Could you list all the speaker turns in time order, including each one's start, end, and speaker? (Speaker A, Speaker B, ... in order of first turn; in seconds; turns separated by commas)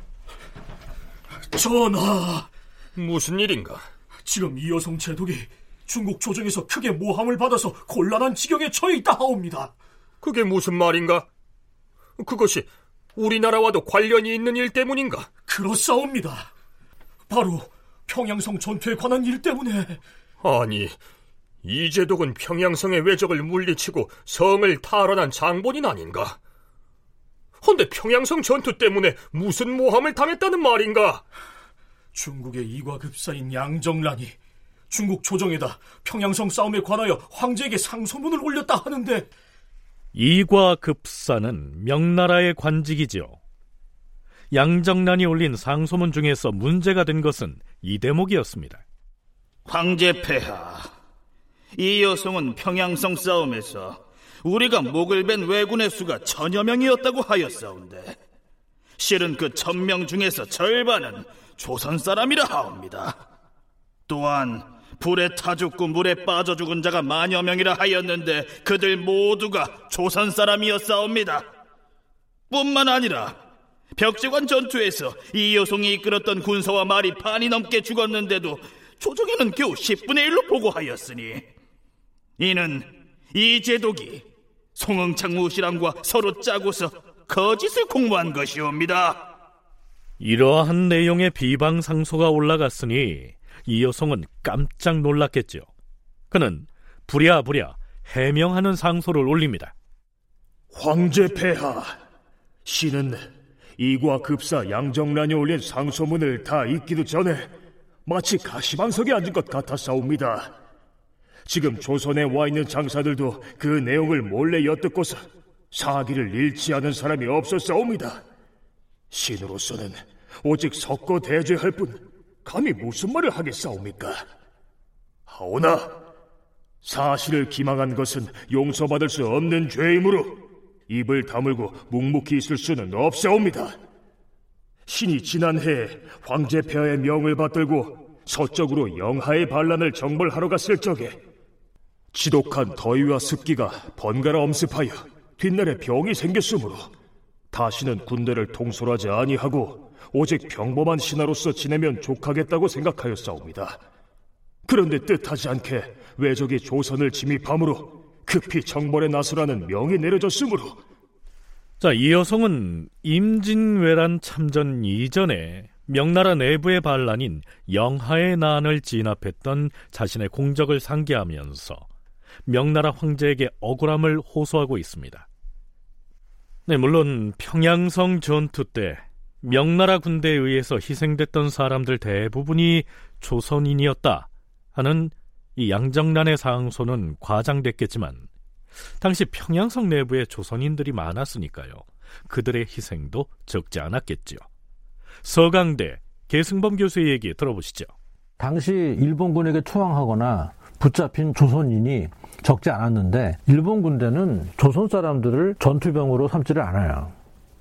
Speaker A: 1.5-2.5, Speaker B: 3.0-3.9, Speaker A: 4.3-9.7, Speaker B: 10.2-11.3, Speaker B: 12.2-15.3, Speaker A: 15.5-16.5, Speaker A: 17.3-20.0, Speaker B: 20.4-21.0, Speaker B: 21.6-26.4, Speaker B: 27.6-31.2, Speaker A: 32.1-34.3, Speaker A: 34.9-39.2, Speaker C: 40.1-43.4, Speaker C: 44.5-48.8, Speaker D: 49.7-50.9, Speaker D: 51.8-58.2, Speaker D: 59.0-63.2, Speaker D: 64.1-71.5, Speaker D: 72.5-73.4, Speaker D: 74.0-81.5, Speaker D: 82.4-89.3, Speaker C: 90.2-95.7, Speaker C: 96.3-99.7, Speaker E: 100.7-102.0, Speaker E: 102.7-103.2, Speaker E: 103.8-107.5, Speaker E: 108.1-110.5, Speaker E: 111.5-118.2, Speaker E: 119.1-124.3, Speaker E: 125.3-126.0, Speaker E: 126.8-133.8, Speaker E: 134.9-141.2, Speaker E: 142.1-146.9, Speaker E: 147.5-153.8, Speaker E: 154.7-160.8, Speaker C: 161.8-171.9, Speaker C: 172.5-175.3, Speaker C: 176.7-188.3, Speaker C: 189.0-194.4, Speaker C: 195.2-197.9, Speaker F: 198.4-207.1